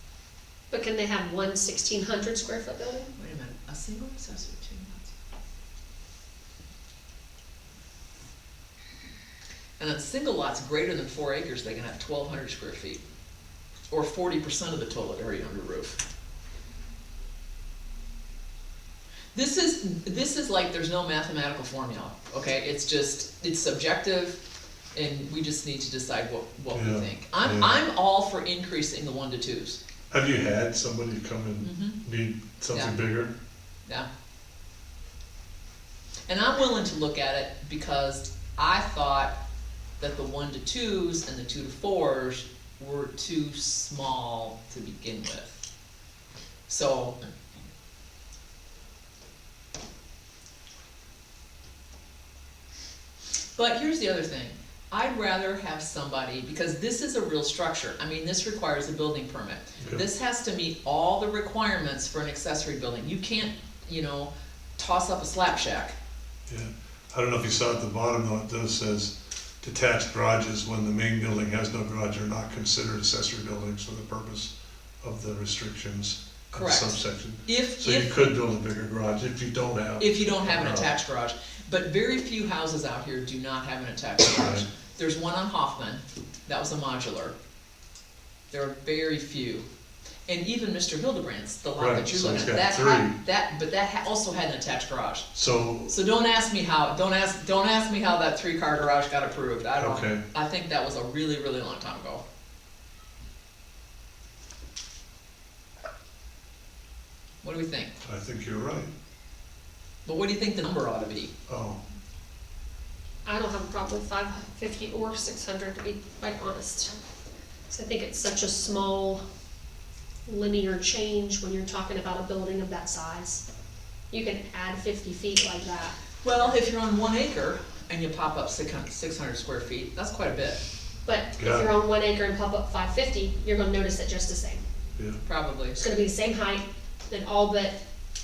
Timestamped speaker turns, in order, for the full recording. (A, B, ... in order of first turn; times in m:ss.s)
0:00.7-0:03.1 A
0:03.2-0:05.1 B
0:09.8-0:13.0 B
0:13.9-0:16.0 B
0:19.3-0:24.4 B
0:24.9-0:29.8 B
0:26.7-0:27.7 C
0:30.1-0:33.3 C
0:31.6-0:32.0 B
0:36.3-0:39.4 B
0:40.0-0:45.5 B
0:46.7-0:47.2 B
0:53.6-1:06.0 B
1:06.5-1:20.9 C
1:16.5-1:18.2 B
1:20.0-1:27.3 B
1:24.2-1:24.6 C
1:28.5-1:29.6 B
1:30.3-1:35.3 B
1:31.8-1:33.2 C
1:35.3-1:35.9 C
1:35.9-1:42.2 B
1:39.7-1:40.2 C
1:47.4-1:47.9 B
1:48.0-1:48.9 C
1:50.0-1:51.3 B
1:51.5-1:51.8 C
1:53.2-1:56.9 A
1:57.7-1:59.2 A
2:00.2-2:03.4 A
2:04.1-2:06.0 A
2:06.2-2:10.6 B
2:11.0-2:14.6 A
2:11.4-2:11.7 C
2:15.2-2:15.8 B
2:15.8-2:17.8 A